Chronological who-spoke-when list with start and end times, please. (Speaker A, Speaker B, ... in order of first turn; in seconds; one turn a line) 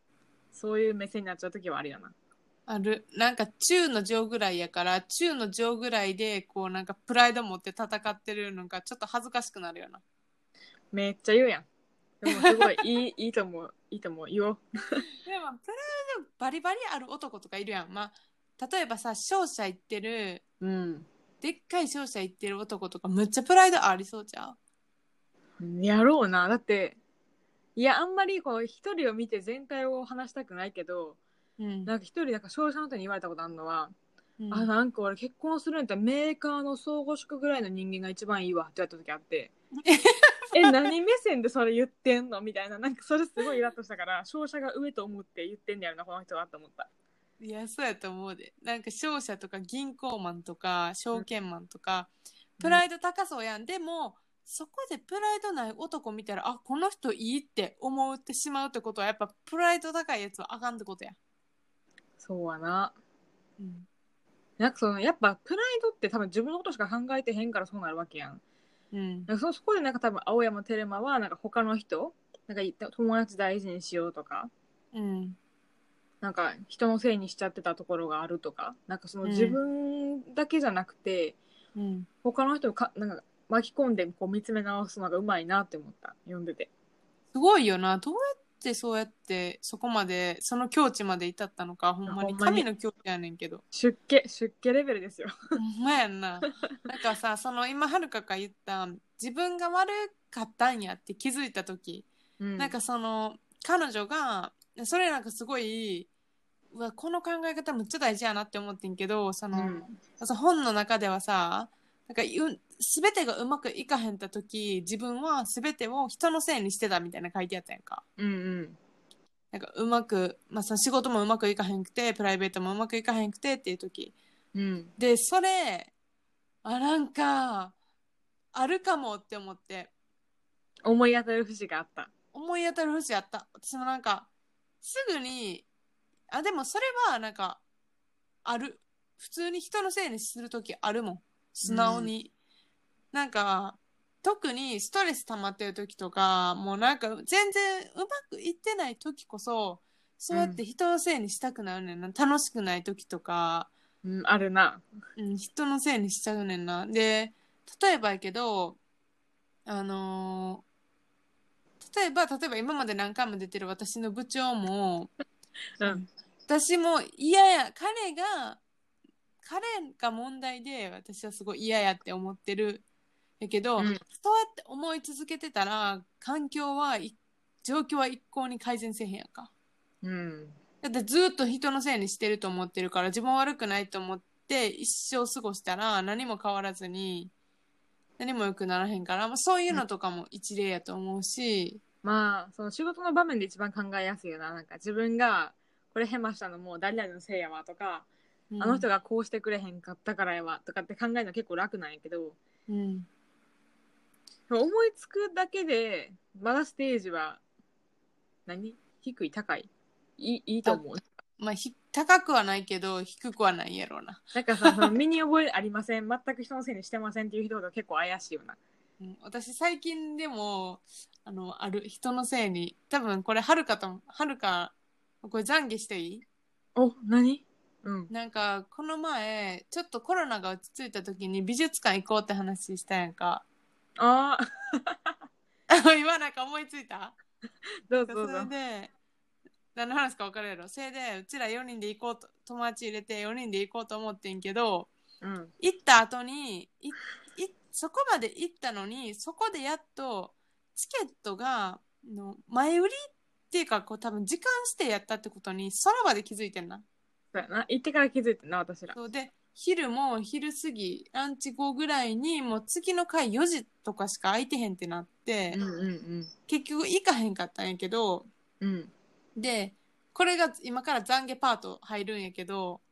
Speaker A: 0.5-2.1
Speaker B: 2.7-10.0
Speaker A: 10.9-11.7
Speaker A: 12.2-15.1
Speaker B: 15.2-20.4
Speaker A: 20.6-21.1
Speaker B: 21.4-24.6
Speaker A: 25.6-27.0
Speaker A: 27.8-31.2
Speaker B: 31.6-31.9
Speaker A: 31.9-33.9
Speaker B: 34.4-34.7
Speaker A: 34.5-39.5
Speaker B: 39.8-40.9
Speaker A: 40.5-46.9
Speaker B: 47.4-52.1
Speaker B: 52.6-61.2
Speaker A: 62.2-62.9
Speaker B: 63.6-63.9
Speaker A: 64.6-68.4
Speaker B: 68.9-69.3
Speaker A: 69.3-74.5
Speaker B: 74.9-75.4
Speaker A: 76.2-81.4
Speaker B: 79.2-79.6
Speaker B: 81.7-82.1
Speaker A: 82.2-86.7
Speaker B: 87.3-93.6
Speaker A: 92.0-92.7
Speaker A: 93.7-95.3
Speaker B: 95.6-102.1
Speaker A: 102.4-102.8
Speaker B: 102.6-106.1
Speaker B: 106.7-118.0
Speaker A: 109.5-109.9
Speaker A: 118.2-118.8
Speaker B: 119.5-124.1
Speaker A: 124.5-124.9
Speaker B: 125.0-125.9
Speaker B: 126.6-127.7
Speaker B: 128.5-129.9
Speaker A: 130.8-132.1
Speaker B: 132.3-134.3
Speaker B: 134.8-135.7
Speaker B: 136.3-137.6
Speaker B: 138.4-142.3
Speaker A: 141.6-142.1
Speaker B: 143.1-153.7
Speaker A: 150.3-150.6
Speaker A: 154.0-154.8
Speaker B: 155.2-158.8
Speaker B: 159.7-160.6
Speaker B: 161.8-165.1
Speaker A: 165.8-166.0
Speaker B: 165.8-168.6
Speaker B: 169.4-172.8
Speaker B: 173.4-179.5
Speaker A: 180.0-180.6
Speaker B: 180.8-187.3
Speaker B: 188.2-191.8
Speaker A: 192.0-198.1
Speaker B: 198.5-198.8
Speaker A: 198.6-202.4
Speaker B: 202.7-203.1
Speaker A: 204.5-207.4
Speaker A: 208.5-211.0
Speaker B: 211.4-214.9
Speaker A: 214.3-218.6
Speaker B: 219.0-226.2
Speaker A: 226.8-228.1
Speaker B: 228.1-233.4
Speaker A: 234.0-235.1
Speaker B: 235.7-237.2
Speaker A: 237.9-238.5
Speaker B: 238.1-238.9
Speaker B: 239.7-244.9
Speaker A: 245.2-245.5
Speaker B: 245.6-256.8
Speaker A: 257.3-259.0
Speaker B: 258.9-265.6
Speaker A: 265.5-266.3
Speaker B: 266.5-268.3
Speaker A: 268.6-268.9
Speaker B: 269.4-272.8